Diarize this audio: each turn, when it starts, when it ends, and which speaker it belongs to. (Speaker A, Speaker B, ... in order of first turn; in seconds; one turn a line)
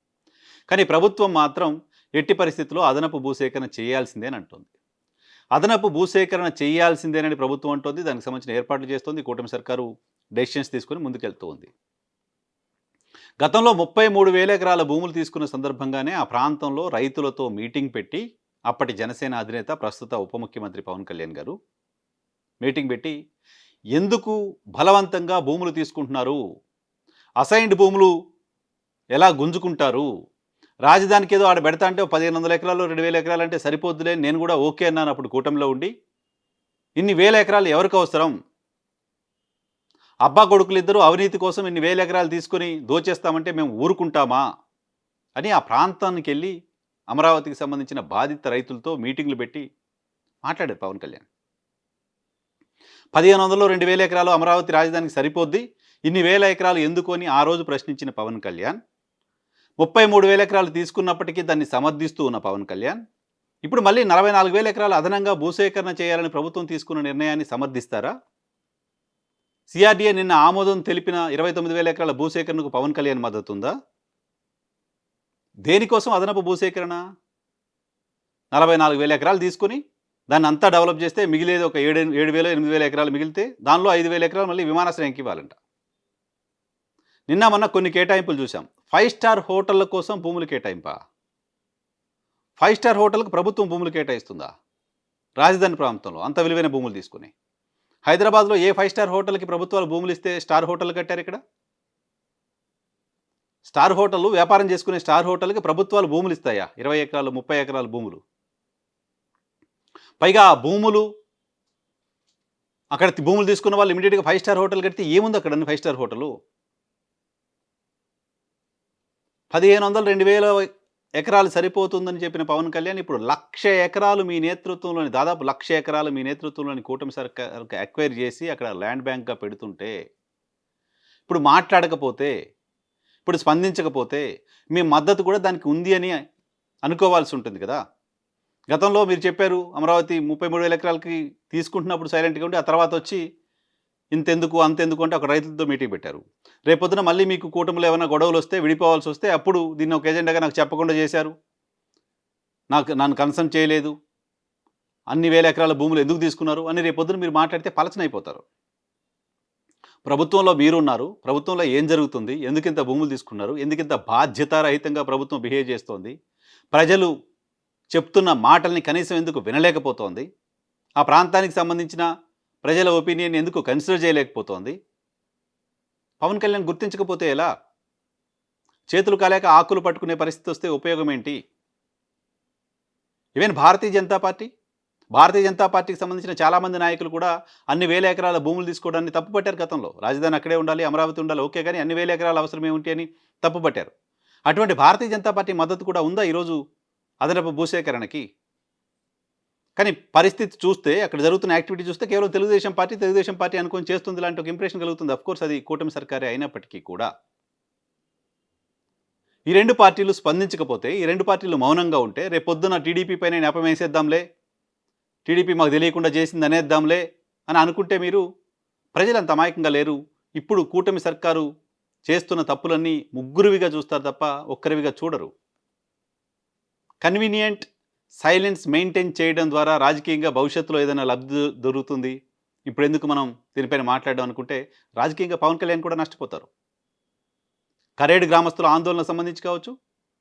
Speaker A: 0.7-4.7
Speaker A: 5.6-11.7
Speaker A: 13.4-21.6
Speaker A: 22.6-23.1
Speaker A: 24.0-26.4
Speaker A: 27.4-28.1
Speaker A: 29.1-30.1
Speaker A: 30.9-35.9
Speaker A: 37.0-38.3
Speaker A: 40.3-44.4
Speaker A: 45.4-46.5
Speaker A: 47.1-49.6
Speaker A: 50.4-51.3
Speaker A: 53.1-58.8
Speaker A: 59.8-63.0
Speaker A: 63.6-68.1
Speaker A: 69.7-73.7
Speaker A: 75.7-77.0
Speaker A: 78.5-79.8
Speaker A: 80.3-85.6
Speaker A: 87.3-91.0
Speaker A: 92.6-94.5
Speaker A: 95.4-97.3
Speaker A: 98.1-101.4
Speaker A: 103.7-108.2
Speaker A: 110.2-111.1
Speaker A: 112.9-116.3
Speaker A: 119.5-120.7
Speaker A: 121.2-129.9
Speaker A: 131.3-132.3
Speaker A: 133.2-136.2
Speaker A: 136.9-137.8
Speaker A: 138.7-143.2
Speaker A: 144.2-151.3
Speaker A: 152.7-153.9
Speaker A: 155.1-158.4
Speaker A: 160.1-166.1
Speaker A: 166.7-167.1
Speaker A: 167.9-170.3
Speaker A: 171.0-172.1
Speaker A: 172.6-174.8
Speaker A: 176.2-177.5
Speaker A: 178.9-181.4
Speaker A: 183.4-184.5
Speaker A: 185.2-193.9
Speaker A: 194.5-196.6
Speaker A: 197.2-198.2
Speaker A: 199.8-207.1
Speaker A: 209.5-214.2
Speaker A: 215.3-218.2
Speaker A: 219.0-221.5
Speaker A: 222.1-225.3
Speaker A: 227.0-227.7
Speaker A: 228.2-232.2
Speaker A: 232.7-236.5
Speaker A: 238.0-239.7